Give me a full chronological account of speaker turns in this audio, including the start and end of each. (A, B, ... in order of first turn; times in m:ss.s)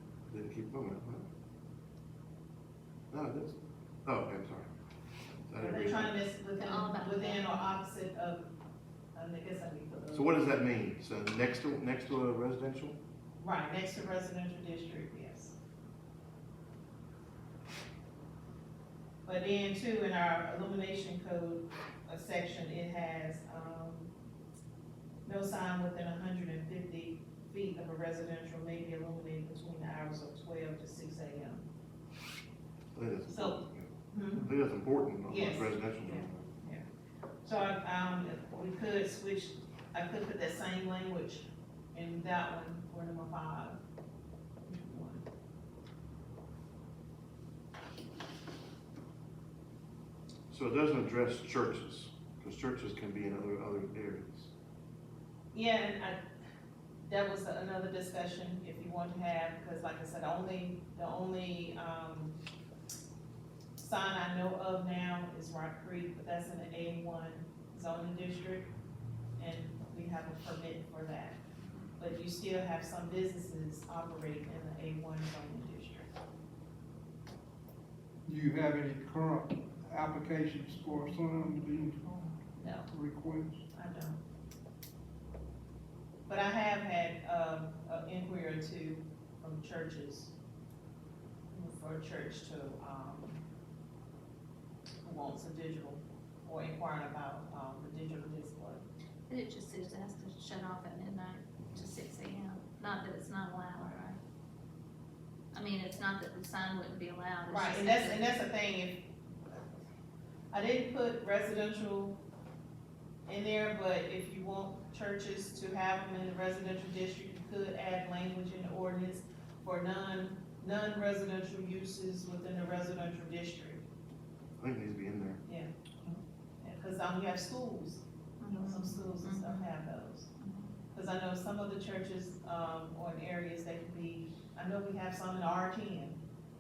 0:00.3-0:01.2 A
0:03.1-0:03.5 A
0:04.1-0:04.7 A
0:05.5-0:06.2 A
0:05.6-0:08.4 B
0:06.6-0:07.5 C
0:09.2-0:10.4 B
0:10.1-0:13.0 A
0:13.4-0:15.6 B
0:19.3-0:24.1 B
0:25.2-0:31.6 B
0:33.0-0:36.5 A
0:33.3-0:33.6 B
0:34.1-0:34.5 B
0:35.3-0:36.8 B
0:37.4-0:43.8 B
0:44.7-0:45.2 B
0:50.5-0:54.5 A
0:55.5-0:56.2 B
0:57.1-1:02.4 B
1:03.8-1:08.7 B
1:09.4-1:11.4 B
1:12.0-1:16.1 B
1:18.2-1:23.6 D
1:22.6-1:22.9 B
1:23.7-1:24.2 B
1:26.3-1:30.3 B
1:31.5-1:33.4 B
1:35.0-1:38.8 B
1:39.3-1:44.2 C
1:45.5-1:48.2 C
1:47.5-1:49.0 B
1:50.5-1:52.2 B
1:53.3-2:03.8 B
2:04.6-2:05.4 A
2:05.4-2:10.3 B
2:08.4-2:08.9 C
2:08.7-2:09.6 D
2:10.9-2:16.2 B